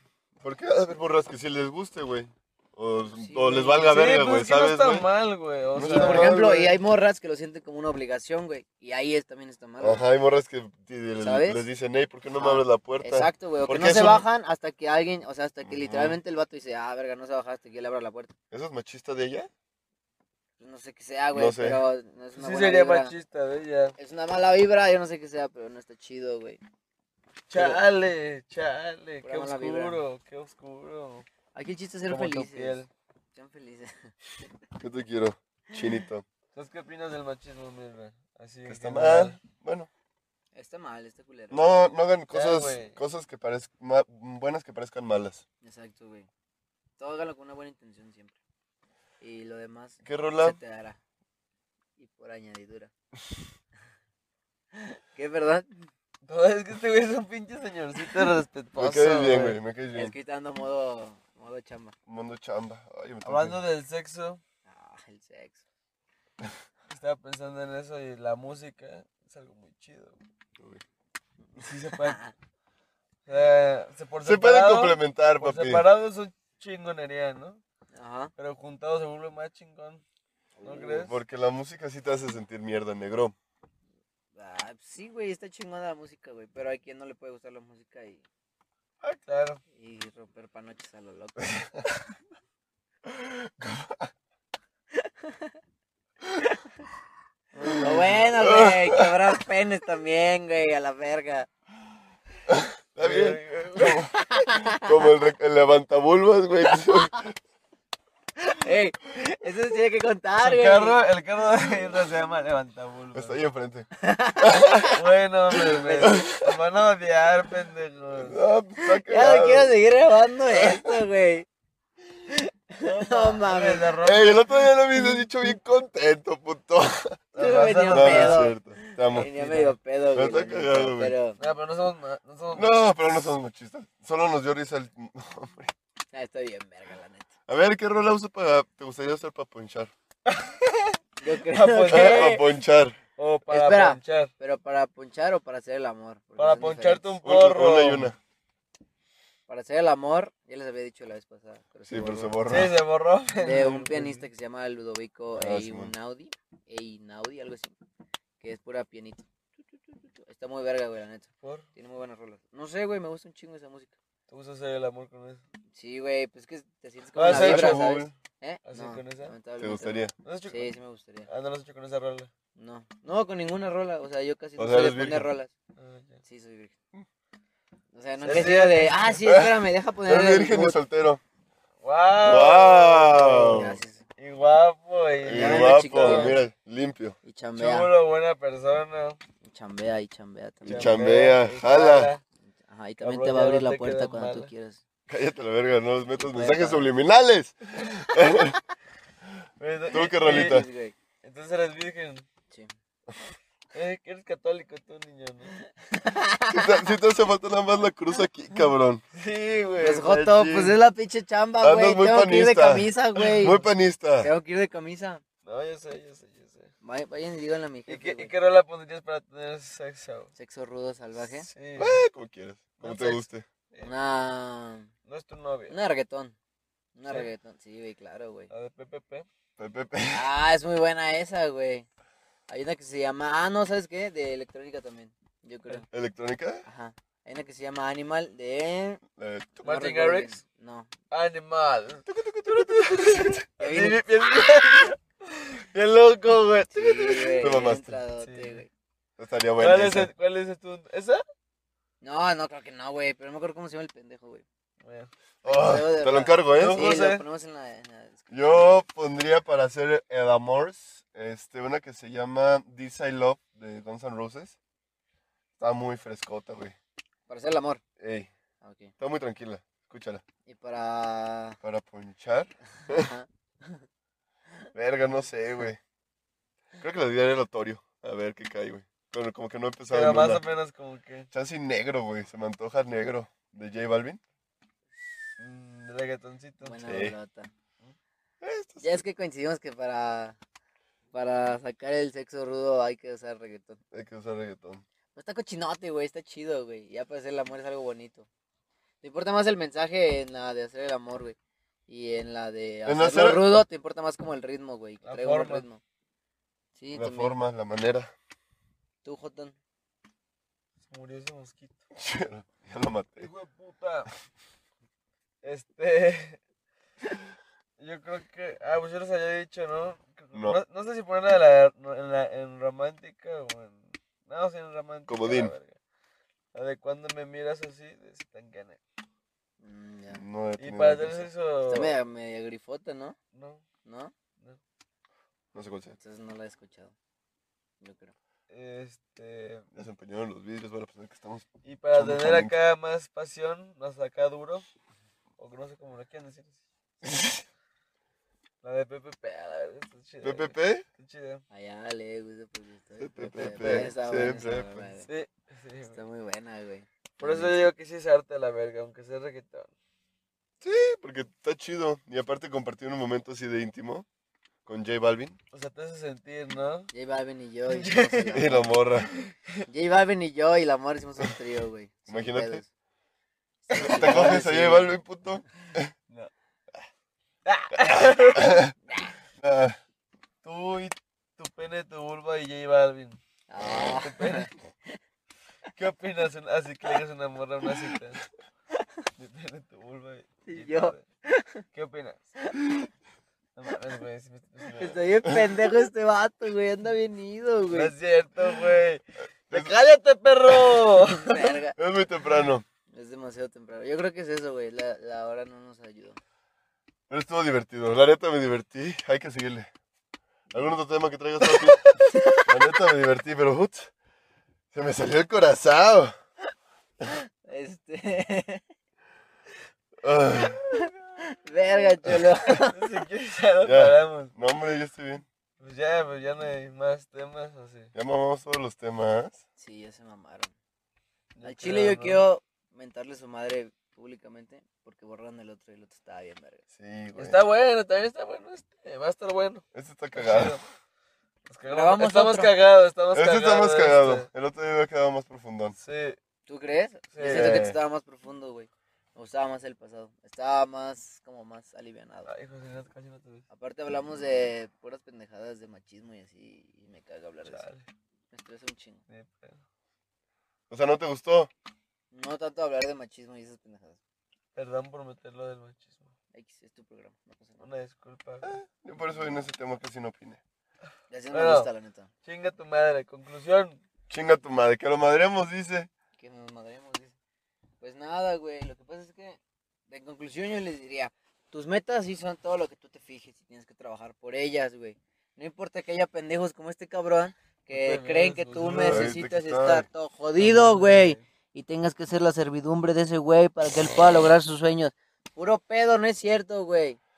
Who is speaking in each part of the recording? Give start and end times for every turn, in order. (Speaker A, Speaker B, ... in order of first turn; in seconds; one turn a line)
Speaker A: 0.4-5.1
Speaker B: 3.1-4.0
Speaker C: 3.8-6.8
Speaker A: 5.8-6.5
Speaker B: 5.9-10.1
Speaker A: 9.8-14.2
Speaker B: 11.2-11.6
Speaker B: 12.4-18.3
Speaker A: 15.7-16.2
Speaker A: 18.5-19.5
Speaker B: 20.6-23.1
Speaker A: 21.3-21.8
Speaker C: 22.4-24.0
Speaker B: 24.0-26.6
Speaker C: 27.5-31.3
Speaker B: 27.5-27.8
Speaker B: 29.2-30.0
Speaker B: 31.5-34.1
Speaker C: 32.1-32.9
Speaker A: 34.8-36.2
Speaker C: 36.5-39.4
Speaker A: 38.7-39.9
Speaker B: 40.5-41.7
Speaker A: 41.5-45.4
Speaker C: 42.3-43.0
Speaker B: 45.6-46.3
Speaker B: 47.0-48.4
Speaker B: 49.2-51.0
Speaker A: 50.0-50.6
Speaker B: 52.0-52.9
Speaker B: 54.7-55.9
Speaker C: 56.2-59.6
Speaker A: 58.8-60.1
Speaker B: 59.9-62.0
Speaker A: 62.1-63.6
Speaker C: 63.2-64.4
Speaker B: 64.7-65.6
Speaker C: 66.9-70.2
Speaker C: 71.6-72.2
Speaker B: 71.9-72.3
Speaker C: 73.3-77.6
Speaker A: 74.2-75.8
Speaker B: 77.9-78.3
Speaker C: 78.4-80.0
Speaker B: 80.6-81.1
Speaker C: 80.6-81.2
Speaker A: 81.0-83.3
Speaker B: 84.4-88.2
Speaker C: 89.0-89.6
Speaker B: 89.8-91.6
Speaker A: 91.6-91.8
Speaker A: 93.1-94.1
Speaker B: 95.0-95.5
Speaker B: 97.6-101.5
Speaker A: 97.6-99.1
Speaker A: 102.5-104.1
Speaker C: 103.0-104.1
Speaker B: 103.8-104.9
Speaker A: 104.7-107.3
Speaker B: 108.5-111.0
Speaker C: 110.4-113.4
Speaker A: 113.1-115.0
Speaker B: 114.0-115.0
Speaker C: 115.0-118.4
Speaker B: 115.7-116.2
Speaker A: 116.0-116.5
Speaker A: 118.2-119.7
Speaker B: 118.8-121.5
Speaker A: 120.5-120.9
Speaker B: 122.3-124.0
Speaker C: 122.8-124.6
Speaker A: 124.0-127.2
Speaker C: 127.3-128.5
Speaker B: 127.4-131.4
Speaker A: 127.9-129.3
Speaker C: 129.1-129.8
Speaker A: 130.1-131.2
Speaker C: 131.4-132.8
Speaker A: 132.5-135.7
Speaker B: 136.1-137.3
Speaker A: 137.5-139.9
Speaker C: 140.3-142.5
Speaker B: 141.2-142.4
Speaker A: 141.9-143.0
Speaker C: 143.2-144.3
Speaker B: 143.5-147.1
Speaker C: 146.4-148.1
Speaker A: 147.2-148.2
Speaker B: 149.5-152.4
Speaker A: 151.9-152.8
Speaker C: 152.5-154.3
Speaker B: 153.4-157.8
Speaker A: 155.3-155.9
Speaker B: 158.4-159.3
Speaker B: 160.2-163.9
Speaker C: 161.4-161.7
Speaker C: 164.3-165.4
Speaker B: 165.7-171.3
Speaker C: 167.2-168.0
Speaker A: 167.2-168.1
Speaker C: 168.7-169.3
Speaker A: 169.6-170.1
Speaker C: 170.2-170.7
Speaker C: 171.3-172.3
Speaker B: 172.6-175.5
Speaker A: 174.6-175.3
Speaker C: 175.8-176.2
Speaker B: 176.2-176.7
Speaker B: 177.9-180.8
Speaker C: 178.2-179.2
Speaker A: 179.3-179.5
Speaker A: 180.1-181.2
Speaker C: 181.8-186.4
Speaker A: 182.2-183.8
Speaker B: 183.5-184.0
Speaker A: 185.2-187.2
Speaker B: 185.3-186.4
Speaker B: 187.2-187.9
Speaker C: 187.6-189.2
Speaker B: 189.4-191.0
Speaker A: 190.7-192.1
Speaker C: 190.7-192.2
Speaker B: 192.7-194.8
Speaker C: 193.0-194.5
Speaker A: 195.1-198.6
Speaker B: 196.2-196.9
Speaker C: 199.6-200.7
Speaker A: 199.9-200.7
Speaker B: 199.9-200.9
Speaker C: 201.2-202.2
Speaker C: 203.7-205.6
Speaker B: 205.9-206.9
Speaker A: 206.5-209.0
Speaker C: 209.1-210.8
Speaker B: 209.8-213.6
Speaker A: 211.6-214.3
Speaker B: 214.2-215.2
Speaker C: 215.4-216.7
Speaker B: 216.8-218.3
Speaker C: 217.9-220.3
Speaker B: 220.3-221.5
Speaker C: 221.2-222.0
Speaker A: 221.8-223.5
Speaker C: 222.8-223.9
Speaker B: 223.8-224.9
Speaker C: 225.1-225.8
Speaker B: 225.7-226.3
Speaker B: 227.0-228.5
Speaker C: 228.5-229.3
Speaker A: 229.6-230.2
Speaker B: 230.1-231.9
Speaker B: 232.5-235.9
Speaker A: 235.9-236.6
Speaker B: 236.7-239.0
Speaker A: 239.2-239.6
Speaker C: 239.6-240.4
Speaker B: 239.6-240.9
Speaker C: 241.1-247.6
Speaker A: 242.1-243.4
Speaker B: 243.6-244.0
Speaker B: 246.7-248.7
Speaker A: 247.4-248.0
Speaker C: 248.2-248.6
Speaker A: 249.2-250.1
Speaker C: 249.6-251.2
Speaker B: 252.0-254.4
Speaker C: 254.8-255.1
Speaker A: 255.4-256.9
Speaker B: 255.4-258.6
Speaker C: 256.6-257.2
Speaker A: 258.3-264.6
Speaker A: 265.6-266.8
Speaker B: 267.3-267.8
Speaker A: 268.0-268.3
Speaker B: 268.6-268.9
Speaker A: 269.0-270.2
Speaker B: 270.5-271.6
Speaker A: 271.6-273.1
Speaker B: 272.8-273.9
Speaker A: 274.7-275.8
Speaker A: 276.8-280.4
Speaker C: 279.9-281.3
Speaker A: 281.3-284.2
Speaker C: 285.4-287.0
Speaker B: 286.6-287.5
Speaker A: 286.8-287.1
Speaker A: 288.4-289.1
Speaker B: 288.8-290.4
Speaker B: 291.1-293.8
Speaker A: 293.9-294.8
Speaker B: 295.1-298.3
Speaker B: 299.0-301.4
Speaker B: 301.9-305.8
Speaker A: 302.9-303.6
Speaker C: 305.0-305.7
Speaker B: 306.8-307.4
Speaker A: 306.9-308.1
Speaker B: 309.0-309.6
Speaker C: 310.8-311.8
Speaker A: 311.9-313.3
Speaker C: 313.2-314.1
Speaker C: 315.4-316.4
Speaker C: 317.8-325.8
Speaker A: 320.3-320.6
Speaker A: 325.1-325.5
Speaker C: 326.5-328.8
Speaker B: 329.6-330.2
Speaker A: 330.1-331.3
Speaker C: 330.6-331.9
Speaker B: 331.7-333.2
Speaker C: 333.3-333.6
Speaker B: 333.8-334.1
Speaker A: 335.5-336.0
Speaker B: 336.0-336.9
Speaker B: 337.8-338.1
Speaker C: 338.5-339.7
Speaker A: 339.8-342.5
Speaker C: 341.6-344.7
Speaker C: 345.4-346.6
Speaker C: 348.6-351.4
Speaker A: 350.2-350.9
Speaker B: 351.5-355.1
Speaker A: 353.0-354.9
Speaker C: 353.4-353.9
Speaker C: 355.1-356.0
Speaker B: 355.9-356.9
Speaker C: 357.2-359.7
Speaker A: 357.2-357.5
Speaker A: 360.6-364.1
Speaker A: 364.7-365.4
Speaker C: 365.5-366.9
Speaker B: 366.9-368.7
Speaker C: 367.7-368.5
Speaker A: 368.3-369.1
Speaker C: 369.1-369.6
Speaker B: 369.7-372.7
Speaker A: 372.1-372.6
Speaker B: 373.7-374.9
Speaker A: 373.8-375.9
Speaker C: 373.8-374.3
Speaker C: 377.5-378.6
Speaker A: 377.9-378.7
Speaker B: 378.9-379.1
Speaker A: 379.4-379.8
Speaker C: 380.4-383.2
Speaker B: 383.5-385.0
Speaker C: 383.8-384.5
Speaker C: 385.8-388.2
Speaker C: 389.2-391.0
Speaker B: 390.5-391.6
Speaker C: 391.7-392.2
Speaker C: 393.6-395.0
Speaker B: 394.8-397.9
Speaker C: 397.7-401.6
Speaker A: 400.5-400.8
Speaker B: 401.2-401.8
Speaker A: 401.8-402.6
Speaker B: 402.9-406.2
Speaker A: 407.1-409.7
Speaker A: 410.5-413.9
Speaker B: 412.0-412.5
Speaker A: 414.7-416.1
Speaker B: 417.4-418.6
Speaker A: 420.0-420.6
Speaker B: 420.7-423.0
Speaker C: 422.7-424.3
Speaker A: 423.6-425.2
Speaker C: 425.6-427.9
Speaker A: 427.9-429.4
Speaker B: 429.6-430.5
Speaker C: 431.4-432.2
Speaker B: 431.4-436.6
Speaker A: 436.8-437.4
Speaker C: 437.2-439.6
Speaker A: 439.7-440.6
Speaker C: 440.2-440.6
Speaker C: 441.5-444.3
Speaker B: 441.7-442.5
Speaker A: 443.1-445.8
Speaker C: 445.8-446.2
Speaker B: 446.5-452.3
Speaker C: 447.1-447.6
Speaker A: 447.2-447.8
Speaker C: 452.3-453.4
Speaker B: 453.5-457.7
Speaker C: 457.4-457.9
Speaker B: 458.3-459.0
Speaker C: 459.1-459.6
Speaker A: 460.7-461.5
Speaker B: 462.1-464.0
Speaker C: 464.6-466.1
Speaker B: 466.3-467.6
Speaker C: 467.6-468.6
Speaker A: 468.4-470.4
Speaker B: 471.1-472.1
Speaker C: 471.3-471.7
Speaker C: 472.2-473.8
Speaker A: 474.1-475.9
Speaker B: 476.2-477.1
Speaker B: 477.8-497.0
Speaker C: 487.7-489.1
Speaker A: 488.8-489.9
Speaker C: 490.4-491.2